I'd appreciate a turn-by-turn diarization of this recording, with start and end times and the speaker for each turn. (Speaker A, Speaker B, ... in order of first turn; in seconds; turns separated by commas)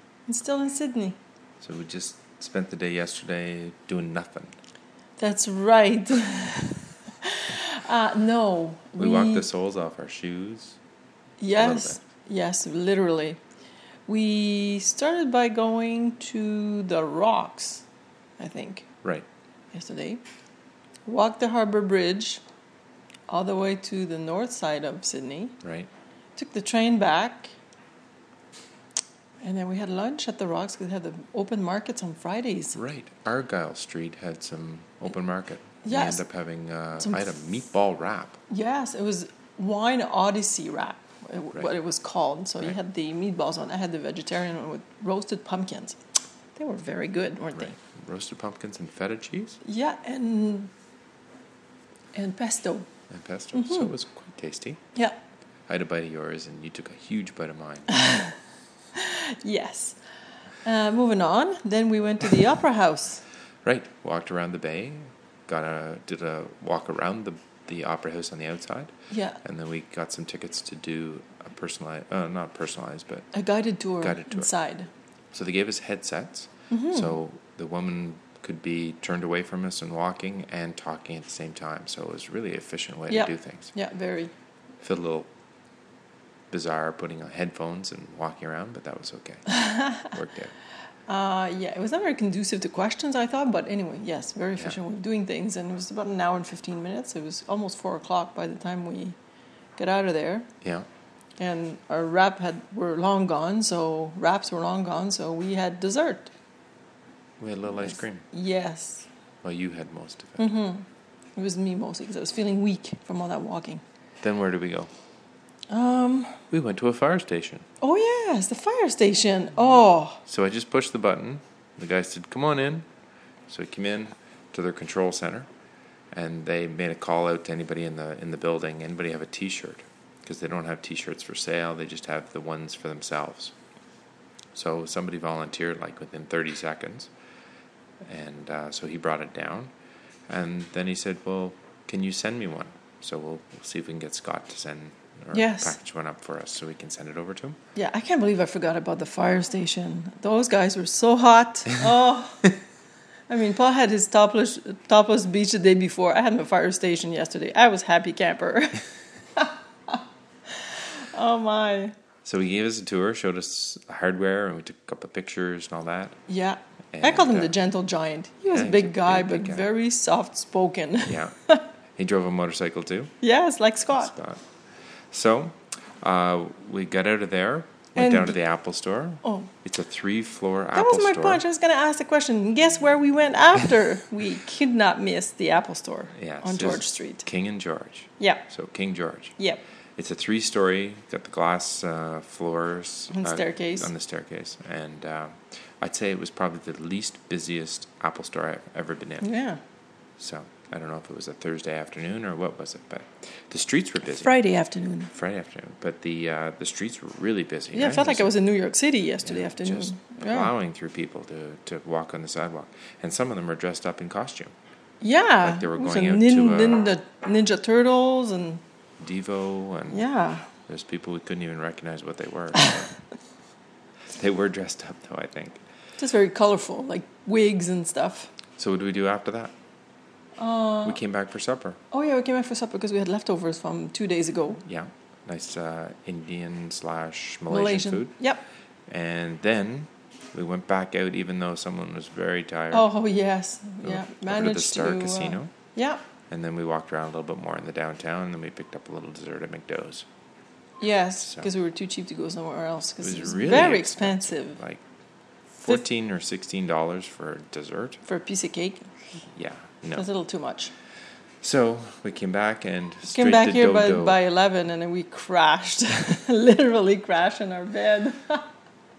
Speaker A: 0.3-1.2, Speaker B: 1.6-4.5, Speaker A: 5.2-9.5, Speaker B: 9.0-10.8, Speaker A: 11.4-13.4, Speaker B: 11.6-12.0, Speaker A: 14.1-17.8, Speaker A: 18.4-18.9, Speaker A: 19.7-20.2, Speaker A: 21.1-22.4, Speaker A: 23.3-25.6, Speaker B: 25.6-25.9, Speaker A: 26.4-27.5, Speaker A: 29.4-32.8, Speaker B: 32.7-38.4, Speaker A: 35.9-36.2, Speaker A: 38.5-46.0, Speaker A: 46.6-47.8, Speaker B: 47.5-49.6, Speaker A: 49.6-50.7, Speaker A: 52.1-52.9, Speaker B: 53.1-54.8, Speaker A: 53.5-53.9, Speaker B: 55.7-57.9, Speaker A: 58.0-58.3, Speaker A: 59.0-60.0, Speaker A: 60.6-63.2, Speaker B: 63.6-68.9, Speaker A: 69.1-69.4, Speaker B: 69.4-73.3, Speaker A: 73.3-74.9, Speaker B: 74.0-74.5, Speaker B: 75.3-83.7, Speaker A: 76.7-77.2, Speaker A: 83.1-84.3, Speaker B: 84.8-85.3, Speaker B: 86.5-90.5, Speaker A: 89.5-90.0, Speaker A: 91.1-99.2, Speaker A: 99.8-100.5, Speaker B: 100.6-100.9, Speaker A: 101.4-106.3, Speaker B: 107.4-108.2, Speaker A: 107.8-109.1, Speaker B: 109.4-110.4, Speaker A: 110.4-113.8, Speaker B: 114.2-114.9, Speaker A: 115.7-116.4, Speaker B: 116.5-117.7, Speaker A: 117.8-120.2, Speaker B: 120.3-122.8, Speaker B: 123.5-125.5, Speaker B: 126.1-133.5, Speaker B: 134.5-137.1, Speaker B: 138.1-139.7, Speaker B: 140.3-147.6, Speaker A: 145.3-145.8, Speaker A: 147.8-152.5, Speaker A: 153.3-158.8, Speaker A: 159.4-160.0, Speaker A: 160.6-161.9, Speaker B: 162.2-166.2, Speaker A: 166.3-171.7, Speaker B: 166.9-167.5, Speaker B: 168.5-169.7, Speaker B: 171.1-171.3, Speaker B: 172.0-173.1, Speaker A: 173.2-174.1, Speaker B: 173.9-174.4, Speaker B: 175.1-181.4, Speaker A: 178.0-178.4, Speaker A: 179.2-179.5, Speaker A: 180.8-187.2, Speaker B: 186.2-189.3, Speaker A: 188.2-188.4, Speaker B: 190.0-199.3, Speaker A: 193.1-193.9, Speaker A: 199.2-199.6, Speaker B: 200.2-204.4, Speaker A: 204.1-205.1, Speaker B: 205.1-208.3, Speaker A: 207.7-210.5, Speaker B: 209.2-214.5, Speaker A: 215.0-218.6, Speaker B: 215.4-216.9, Speaker B: 219.0-220.0, Speaker A: 219.9-220.5, Speaker B: 220.7-223.0, Speaker B: 224.1-225.6, Speaker A: 226.0-228.3, Speaker B: 228.6-229.5, Speaker A: 230.4-231.0, Speaker B: 230.8-231.8, Speaker A: 231.9-234.6, Speaker B: 234.7-238.1, Speaker A: 237.5-238.4, Speaker B: 238.9-242.9, Speaker A: 242.7-246.0, Speaker B: 243.8-245.5, Speaker B: 246.3-250.1, Speaker A: 250.8-254.6, Speaker B: 251.2-251.5, Speaker B: 253.0-254.8, Speaker B: 255.6-258.0, Speaker A: 258.0-258.9, Speaker B: 259.4-260.1, Speaker A: 260.0-260.7, Speaker B: 261.4-264.2, Speaker A: 263.1-268.5